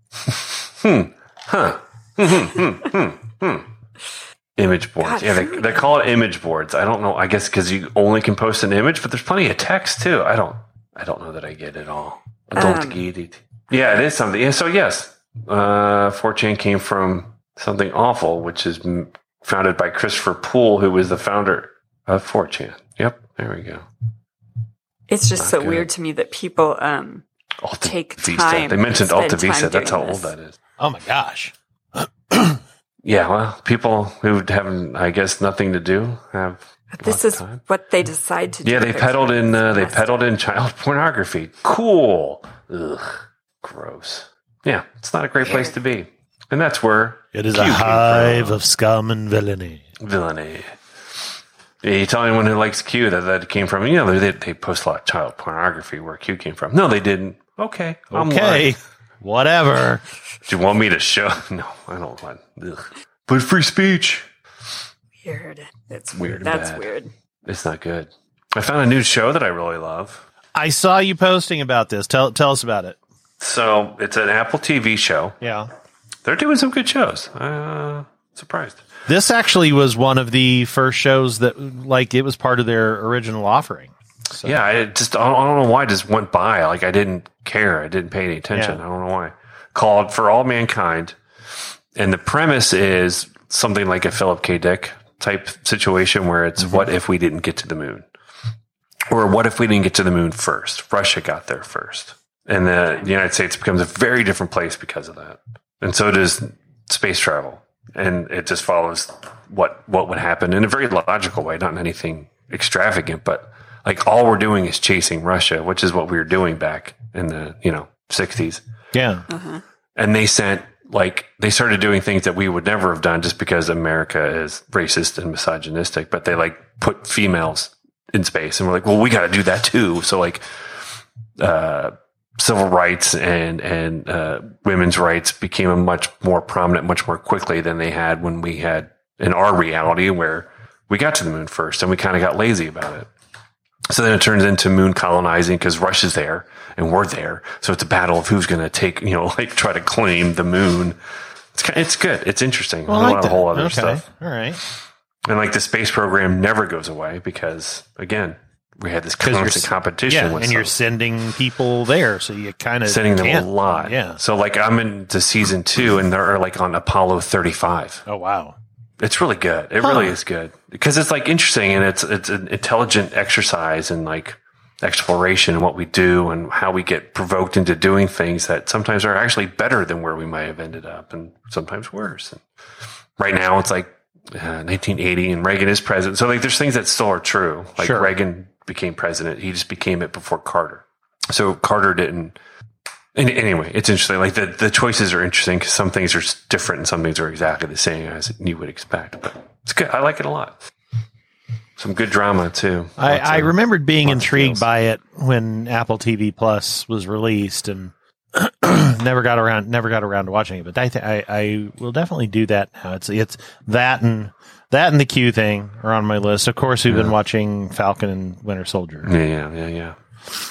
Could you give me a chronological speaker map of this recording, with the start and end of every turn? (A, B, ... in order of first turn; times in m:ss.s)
0:00.3-0:03.7 A
0:04.6-0:23.8 A
0:05.0-0:05.9 B
0:12.6-0:13.0 B
0:25.1-0:27.2 B
0:25.4-0:25.9 A
0:27.6-0:30.6 A
0:27.8-0:30.3 B
0:30.8-0:32.6 C
0:33.0-0:37.6 A
0:36.9-0:40.0 B
0:38.6-0:48.6 A
0:45.4-0:45.7 B
0:47.3-0:49.8 C
0:50.0-0:50.8 A
0:51.8-0:58.8 A
0:58.1-1:00.0 C
1:00.4-1:04.3 A
1:05.2-1:07.1 B
1:06.2-1:06.9 A
1:07.5-1:10.2 A
1:10.6-1:13.0 C
1:13.4-1:15.4 A
1:15.4-1:15.7 C
1:16.2-1:18.8 A
1:19.1-1:24.6 C
1:24.4-1:31.2 A
1:28.5-1:28.8 C
1:32.0-1:38.1 A
1:36.6-1:36.9 C
1:39.1-1:58.6 A
1:58.9-1:59.2 C
1:59.3-1:59.6 B
2:00.0-2:10.4 A
2:11.4-2:23.1 A
2:23.9-2:31.0 A
2:31.6-2:34.0 A
2:32.9-2:34.6 C
2:35.3-2:40.7 A
2:39.2-2:44.2 C
2:42.9-2:48.0 A
2:48.1-2:48.6 C
2:49.0-3:02.4 A
2:49.8-2:50.2 C
3:03.2-3:12.4 A
3:07.8-3:08.1 C
3:13.2-3:20.6 A
3:21.8-3:24.6 A
3:23.0-3:39.1 C
3:36.9-3:37.1 A
3:39.0-3:40.0 A